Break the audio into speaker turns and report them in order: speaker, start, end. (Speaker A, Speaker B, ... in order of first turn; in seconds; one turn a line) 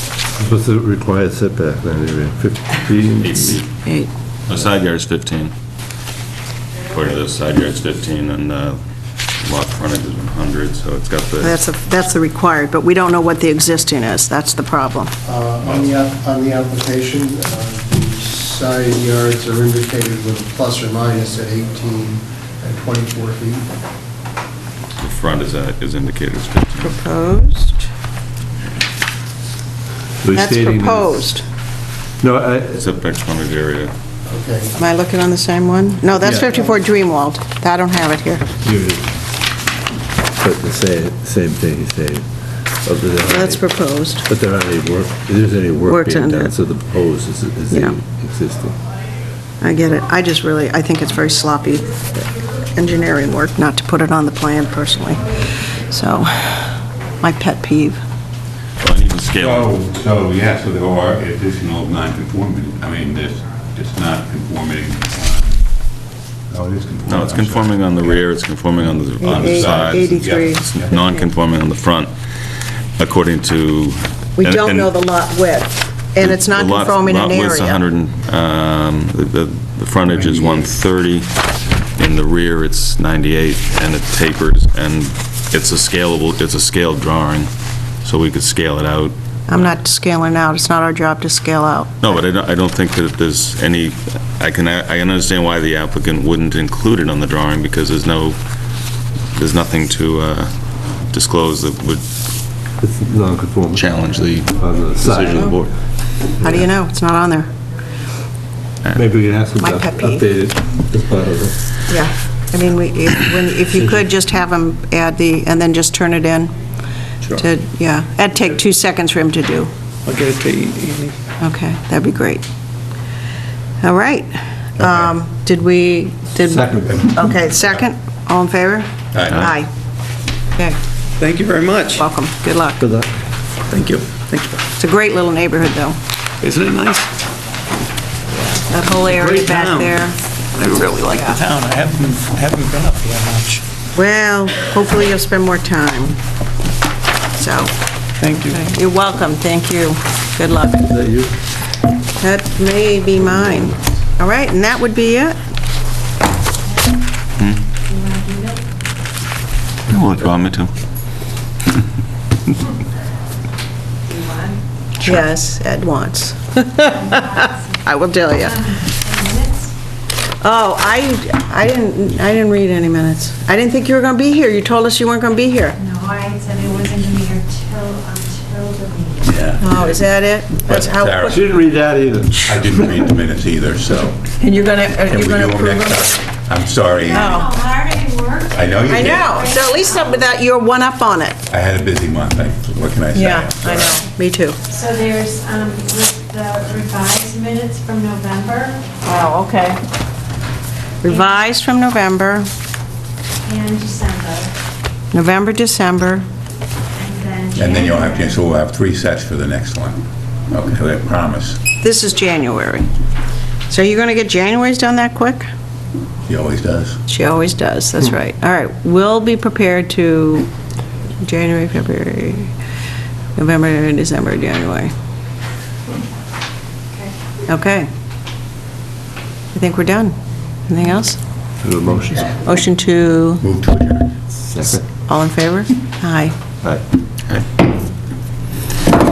Speaker A: 0.4-3.6
Speaker B: 3.2-3.7
Speaker B: 4.5-5.5
Speaker B: 6.9-8.8
Speaker B: 9.4-11.6
Speaker C: 11.4-15.1
Speaker D: 15.2-23.7
Speaker B: 25.0-27.0
Speaker C: 26.8-27.9
Speaker A: 30.2-31.3
Speaker C: 30.3-31.4
Speaker A: 32.2-32.8
Speaker B: 32.8-33.9
Speaker D: 34.3-34.8
Speaker C: 34.8-38.5
Speaker A: 36.2-36.5
Speaker A: 38.6-39.1
Speaker A: 40.4-42.3
Speaker A: 42.8-43.6
Speaker C: 43.3-44.2
Speaker A: 44.2-48.8
Speaker C: 45.8-46.5
Speaker C: 47.7-48.0
Speaker C: 49.6-58.0
Speaker B: 58.8-59.7
Speaker E: 59.4-65.6
Speaker E: 66.5-68.2
Speaker B: 67.1-72.1
Speaker C: 69.2-71.2
Speaker E: 69.3-70.9
Speaker B: 73.0-74.9
Speaker C: 74.4-77.8
Speaker B: 76.2-81.3
Speaker B: 82.0-87.5
Speaker B: 88.0-89.7
Speaker C: 89.5-92.2
Speaker B: 92.0-98.4
Speaker B: 99.3-100.5
Speaker B: 101.1-102.0
Speaker A: 102.8-103.9
Speaker B: 103.7-105.7
Speaker A: 104.5-105.6
Speaker C: 106.4-107.5
Speaker A: 108.9-111.5
Speaker C: 109.6-110.2
Speaker C: 111.9-116.5
Speaker A: 113.7-114.1
Speaker C: 117.3-119.7
Speaker F: 120.1-121.2
Speaker C: 121.4-122.4
Speaker C: 123.8-129.7
Speaker A: 126.4-127.3
Speaker E: 129.1-129.5
Speaker F: 131.2-132.0
Speaker C: 131.9-132.9
Speaker A: 132.8-133.1
Speaker F: 133.7-134.6
Speaker C: 134.8-136.0
Speaker F: 136.4-137.1
Speaker C: 138.7-140.2
Speaker F: 139.1-139.9
Speaker F: 140.6-143.6
Speaker C: 143.9-146.2
Speaker C: 147.3-147.7
Speaker F: 148.2-148.6
Speaker C: 148.5-150.9
Speaker A: 150.9-151.3
Speaker C: 152.2-155.4
Speaker B: 159.9-160.7
Speaker C: 165.0-168.6
Speaker G: 169.1-169.5
Speaker C: 170.4-175.8
Speaker G: 175.9-179.1
Speaker E: 179.2-180.1
Speaker C: 179.6-181.4
Speaker E: 180.6-181.4
Speaker A: 181.2-182.6
Speaker E: 182.4-184.2
Speaker C: 184.4-186.1
Speaker E: 185.1-187.5
Speaker C: 187.1-187.5
Speaker G: 187.3-188.4
Speaker E: 188.5-189.4
Speaker C: 188.9-191.4
Speaker E: 191.5-194.0
Speaker C: 193.1-194.6
Speaker G: 194.8-198.8
Speaker C: 199.0-199.8
Speaker C: 201.0-202.5
Speaker G: 203.5-204.5
Speaker C: 205.1-206.2
Speaker G: 207.0-207.7
Speaker E: 207.5-211.6
Speaker C: 211.8-212.9
Speaker C: 213.7-215.4
Speaker E: 216.3-217.0
Speaker C: 217.1-220.5
Speaker C: 221.2-222.5
Speaker C: 223.3-224.9
Speaker C: 227.5-227.9
Speaker C: 229.5-230.1
Speaker C: 230.7-231.2
Speaker A: 231.6-232.4
Speaker C: 232.4-233.4
Speaker E: 233.4-234.2
Speaker A: 234.4-234.8
Speaker C: 235.1-236.3